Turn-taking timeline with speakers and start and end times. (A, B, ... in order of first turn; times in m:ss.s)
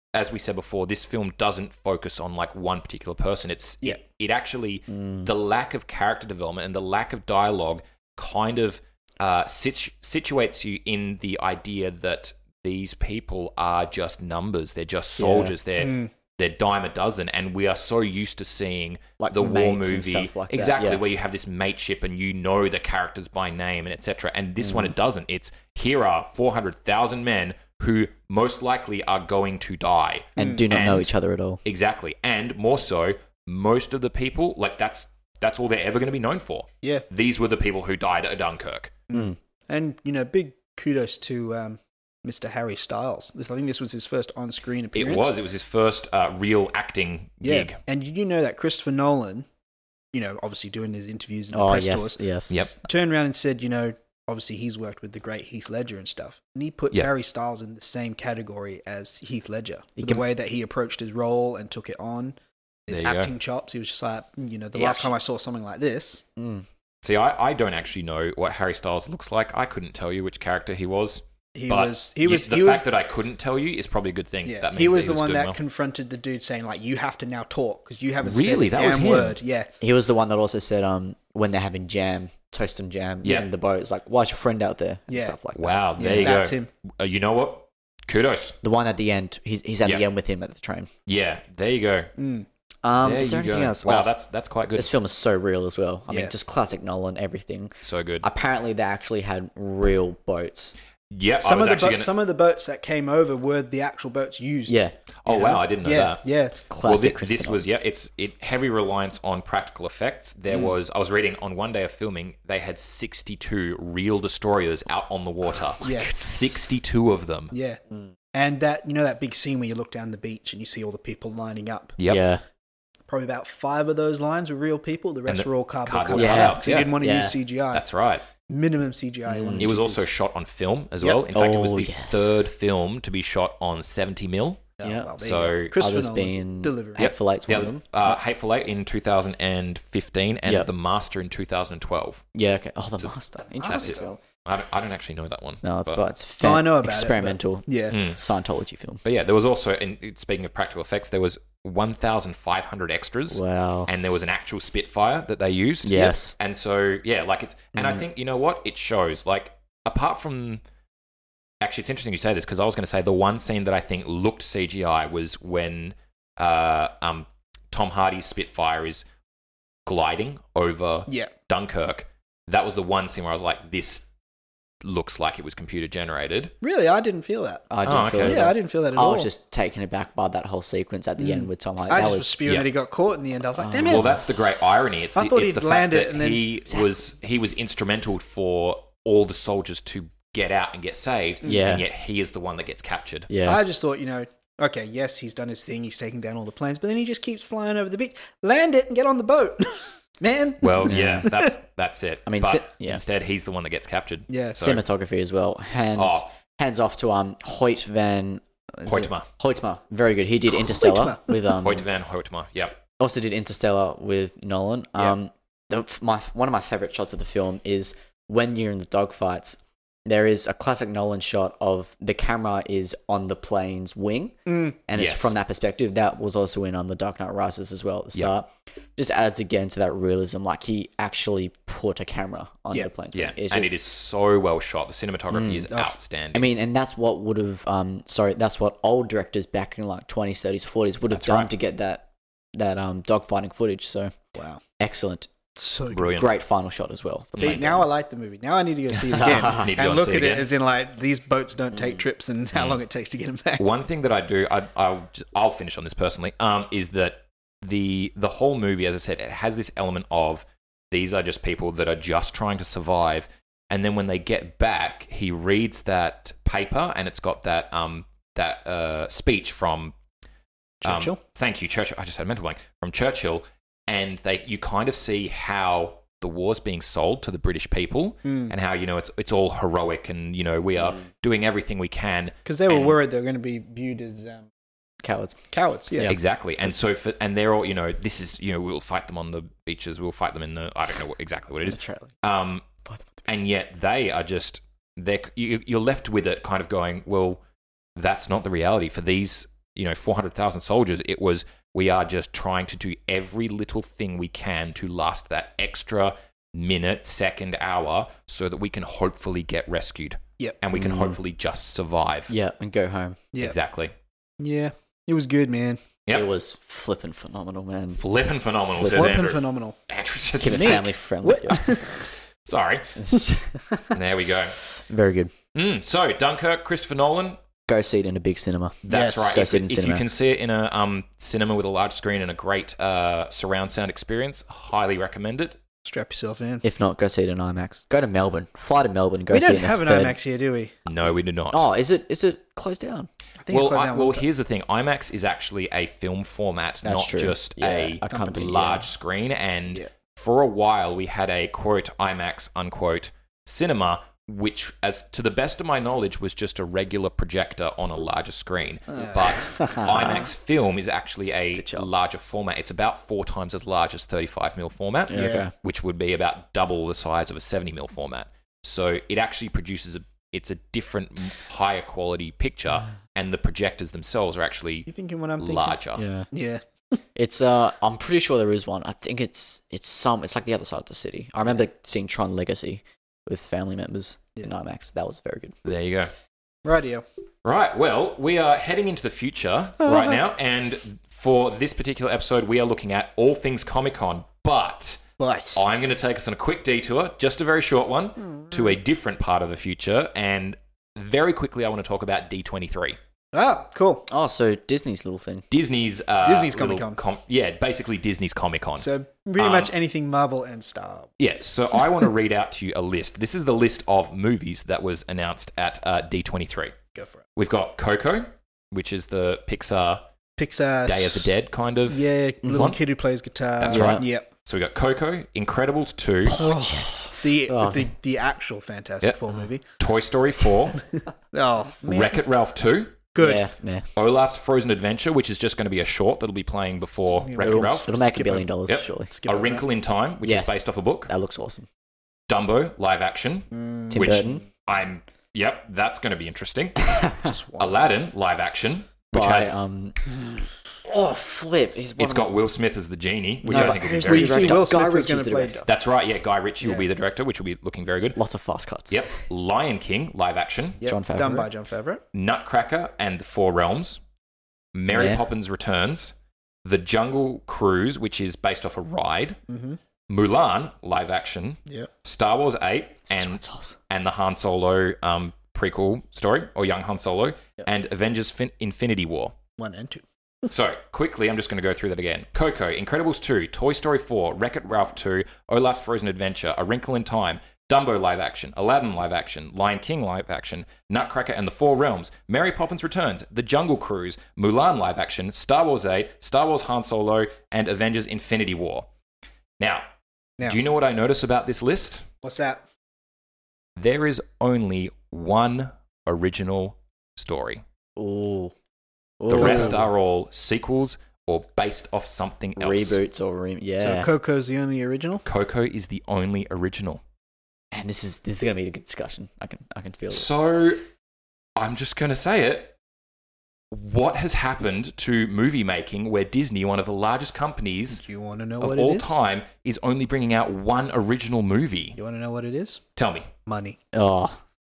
0:00.1-0:31.1 A
0:04.9-0:05.3 B
0:15.2-0:15.5 B
0:15.8-0:16.1 C
0:19.2-0:21.0 B
0:24.6-0:24.9 B
0:30.4-0:31.6 B
0:30.4-0:30.7 C
0:31.6-0:39.0 A
0:39.1-0:45.3 C
0:45.0-0:47.8 A
0:47.4-0:49.5 C
0:50.1-1:06.2 C
0:51.5-0:52.6 B
0:52.5-0:52.8 A
1:02.9-1:03.3 A
1:04.8-1:05.1 A
1:06.4-1:06.7 B
1:07.0-1:15.6 A
1:11.6-1:12.9 C
1:14.5-1:19.7 C
1:18.2-1:19.4 A
1:19.8-1:26.4 B
1:25.1-1:25.4 C
1:25.6-1:28.6 A
1:26.0-1:26.7 C
1:28.6-1:30.9 B
1:31.1-1:32.1 A
1:32.2-1:32.5 C
1:32.8-1:34.1 B
1:33.0-1:34.9 A
1:34.8-1:40.8 B
1:37.8-1:38.3 A
1:41.1-1:42.1 A
1:41.4-1:46.6 C
1:44.7-1:45.0 B
1:45.2-1:46.2 A
1:46.6-1:47.6 B
1:46.8-1:57.5 A
1:55.8-1:56.3 C
1:57.5-1:57.8 C
1:58.3-2:02.0 C
2:02.0-2:02.3 A
2:02.0-2:02.4 B
2:03.1-2:07.8 C
2:05.3-2:06.9 A
2:06.1-2:07.4 B
2:07.7-2:08.2 A
2:08.4-2:10.1 C
2:09.3-2:09.7 B
2:09.6-2:15.7 A
2:11.2-2:12.4 B
2:14.8-2:17.1 C
2:14.8-2:15.1 B
2:15.8-2:18.2 B
2:17.0-2:22.2 A
2:22.3-2:24.2 B
2:23.4-2:24.1 C
2:23.7-2:26.1 A
2:25.6-2:29.0 B
2:26.4-2:28.0 C
2:27.9-2:28.2 A
2:29.0-2:40.6 A
2:33.3-2:33.9 B
2:35.8-2:36.4 B
2:37.8-2:38.0 B
2:41.6-2:49.0 A
2:49.9-2:54.1 A
2:54.8-2:56.5 A
2:56.6-2:59.3 C
2:57.7-3:02.4 B
2:57.8-2:58.4 A
3:01.2-3:04.2 C
3:03.6-3:04.2 B
3:03.8-3:13.3 A
3:05.2-3:06.5 C
3:11.4-3:11.8 B
3:13.3-3:13.6 B
3:13.4-3:21.5 C
3:20.6-3:24.8 A
3:20.8-3:21.3 B
3:22.3-3:23.0 B
3:24.3-3:24.7 C
3:24.6-3:31.9 B
3:26.0-3:26.3 A
3:28.8-3:29.3 A
3:30.5-3:31.6 C
3:31.6-3:32.8 A
3:33.0-3:53.7 B
3:44.5-3:44.8 C
3:45.0-3:45.4 A
3:53.1-3:56.5 A
3:55.3-3:55.7 B
3:56.3-4:04.2 B
4:01.1-4:01.5 A
4:04.4-4:04.6 C
4:04.8-4:05.3 B
4:05.6-4:06.1 C
4:05.9-4:06.3 A
4:06.1-4:07.9 B
4:07.4-4:07.7 A
4:07.4-4:13.7 C
4:09.1-4:09.7 B
4:09.2-4:10.5 A
4:11.8-4:12.0 B
4:13.6-4:30.0 A
4:30.8-4:31.2 C
4:30.8-4:43.0 A
4:38.2-4:38.5 C
4:42.5-4:44.5 C
4:45.0-4:45.4 B
4:45.5-4:46.1 C
4:45.9-4:46.7 B
4:46.1-4:52.6 A
4:51.7-4:52.1 B
4:53.3-4:57.4 A
4:58.0-5:12.3 A
5:10.7-5:11.2 B
5:12.3-5:13.2 B
5:13.4-5:13.9 A
5:14.4-5:15.8 C
5:16.1-5:18.0 B
5:18.0-5:20.8 A
5:18.8-5:19.2 B
5:18.8-5:19.8 C
5:20.4-5:21.8 B
5:20.4-5:22.0 C
5:22.4-5:23.0 A
5:23.0-5:24.0 B
5:23.9-5:24.6 A
5:24.6-5:25.3 B
5:25.5-5:27.4 A
5:27.7-5:30.0 B
5:28.9-5:35.6 A
5:28.9-5:29.3 C
5:35.9-5:36.6 C
5:36.6-5:40.2 B
5:39.3-5:40.7 C
5:40.9-5:41.7 A
5:41.5-5:43.1 B
5:43.4-5:44.2 C
5:43.5-6:16.0 A
5:46.8-5:48.8 B
5:48.1-5:48.5 C
5:58.9-5:59.2 C
5:59.4-6:00.3 B
6:01.2-6:01.9 B
6:05.1-6:05.5 B
6:05.1-6:05.5 C
6:14.9-6:15.8 C
6:16.0-6:16.3 B
6:16.3-6:16.6 C
6:17.2-6:25.6 B
6:25.6-6:26.1 A
6:26.6-6:27.0 C
6:27.4-6:43.0 A
6:29.8-6:30.2 C
6:35.2-6:35.6 C
6:43.3-6:44.1 C
6:44.1-6:45.4 B
6:45.5-6:49.7 A
6:46.2-6:47.0 C
6:48.8-6:51.2 C
6:51.2-6:56.8 A
6:57.0-6:57.2 C
6:57.4-7:00.0 A
7:00.4-7:01.3 C
7:00.8-7:02.8 A
7:01.9-7:04.3 C
7:02.5-7:02.7 B
7:03.6-7:06.4 A
7:03.7-7:04.0 B
7:06.3-7:07.9 B
7:06.3-7:09.6 C
7:09.8-7:10.8 A
7:11.3-7:12.2 C
7:11.8-7:13.0 A
7:13.1-7:13.4 C
7:13.2-7:13.9 B
7:14.0-7:17.9 A
7:17.2-7:19.7 C
7:17.4-7:19.1 B
7:18.7-7:21.1 A
7:20.2-7:21.7 B
7:22.3-7:26.8 A
7:23.5-7:24.3 C
7:23.9-7:24.4 B
7:26.8-7:27.3 B
7:27.2-7:27.9 C
7:27.6-7:29.5 A
7:29.1-7:30.0 B
7:30.8-7:32.3 B
7:32.0-7:34.7 A
7:33.4-7:35.7 C
7:33.5-7:35.6 B
7:35.7-7:38.2 A
7:36.6-7:36.9 C
7:38.2-7:39.1 B
7:38.9-7:40.8 A
7:40.8-7:42.0 C
7:40.8-7:41.5 B
7:42.1-7:44.0 A
7:44.7-7:49.4 A
7:44.9-7:45.2 B
7:49.5-7:49.8 C
7:50.1-7:59.4 A
7:53.1-7:53.8 B
7:59.6-8:00.0 C
8:00.5-8:18.9 A
8:19.6-8:19.9 A
8:20.4-8:22.1 A
8:22.2-8:22.6 C
8:23.8-8:27.6 A
8:28.0-8:28.6 B
8:29.2-8:29.8 B
8:29.3-8:33.0 A
8:29.4-8:29.9 C
8:32.6-8:34.1 B
8:33.8-8:35.2 C
8:35.2-8:37.0 A
8:37.7-8:40.3 B
8:40.1-8:40.8 A
8:41.6-8:42.8 A
8:43.7-8:48.0 A
8:47.9-8:49.2 C
8:48.6-8:52.0 A
8:52.0-8:52.8 C
8:53.0-8:53.3 A
8:53.5-8:53.8 C
8:53.9-8:54.4 B